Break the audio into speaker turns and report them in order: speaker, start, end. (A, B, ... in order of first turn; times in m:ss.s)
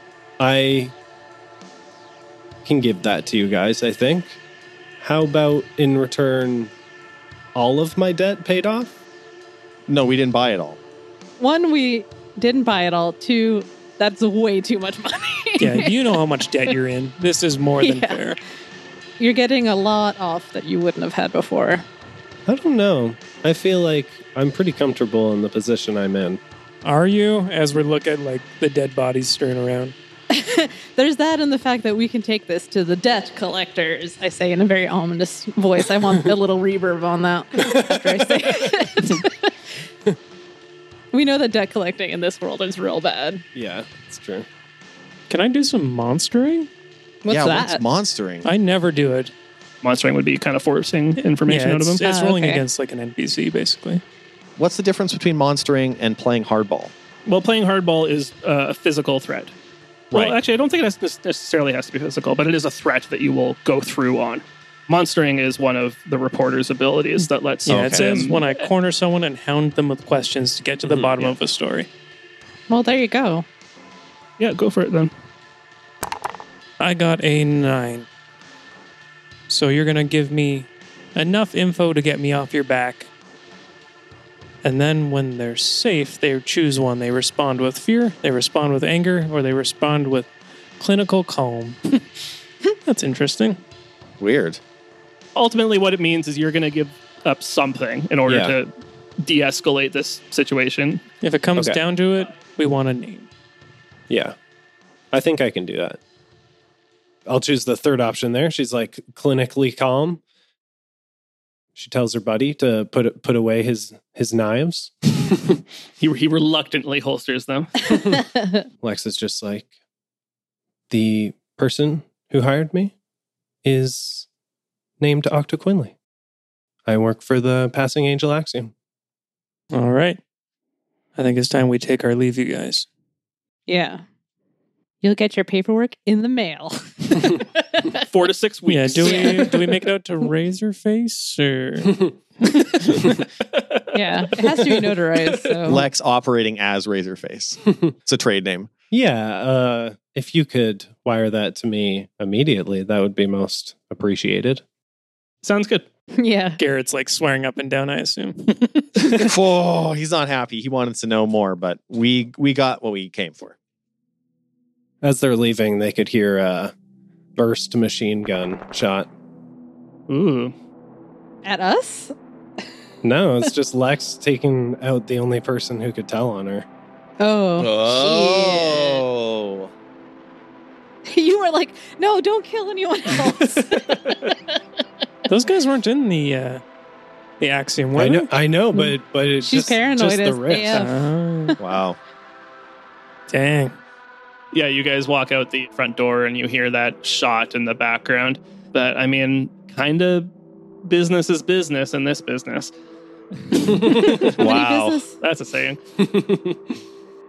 0:00.4-0:00.9 A
0:02.6-0:04.4 A
0:05.0-0:06.7 A
0:07.5-0:08.9 A
0:09.9-0:10.8 B
0:11.4-0:16.2 C
0:15.6-0:18.4 D
0:17.8-0:18.3 C
0:19.2-0:21.8 C
0:22.5-0:26.4 A
0:26.8-0:29.9 D
0:30.3-0:39.5 C
0:41.1-0:43.4 C
0:43.5-0:44.5 A
0:45.3-0:46.7 D
0:47.2-0:47.8 C
0:47.3-0:48.5 B
0:48.4-0:49.3 D
0:49.8-0:52.0 E
0:51.4-0:54.0 D
0:52.0-0:52.6 C
0:54.6-0:56.9 B
0:57.2-0:59.5 E
1:00.1-1:08.6 E
1:07.6-1:11.9 D
1:07.7-1:08.1 B
1:11.0-1:11.3 E
1:12.7-1:13.4 C
1:14.4-1:15.1 E
1:16.8-1:18.1 D
1:19.5-1:23.1 D
1:24.6-1:32.0 D
1:32.9-1:33.6 D
1:34.2-1:34.6 B
1:35.3-1:41.0 E
1:38.3-1:38.5 A
1:41.2-1:43.3 D
1:44.1-1:44.4 A
1:45.1-1:46.0 A
1:47.3-1:50.2 A
1:51.8-1:55.6 A
1:56.0-1:57.9 E
1:58.8-1:59.7 A
2:00.9-2:02.9 A
2:03.6-2:04.3 A
2:05.0-2:05.9 A
2:06.8-2:08.7 A
2:09.7-2:10.2 D
2:11.2-2:12.9 D
2:13.7-2:14.0 C
2:15.0-2:18.0 C
2:18.0-2:19.6 E
2:18.6-2:23.2 D
2:19.0-2:19.6 C
2:23.5-2:25.5 E
2:23.9-2:25.8 C
2:25.6-2:28.7 B
2:28.9-2:34.6 A
2:35.4-2:35.8 E
2:36.1-2:36.6 C
2:36.6-2:39.2 D
2:39.1-2:43.5 B
2:45.0-2:46.7 A
2:47.4-2:49.1 A
2:50.1-2:50.5 E
2:51.4-2:52.1 C
2:53.0-2:56.6 A
2:57.2-2:59.0 C
2:57.6-2:59.7 B
3:01.0-3:04.4 C
3:05.3-3:06.6 D
3:07.4-3:08.3 D
3:08.0-3:10.8 A
3:08.7-3:11.0 C
3:10.7-3:11.6 D
3:11.6-3:12.0 B
3:13.3-3:13.8 D
3:14.5-3:20.3 E
3:20.8-3:22.7 E
3:23.5-3:24.2 E
3:23.9-3:25.1 C
3:24.4-3:25.0 B
3:25.2-3:25.8 E
3:26.0-3:26.6 A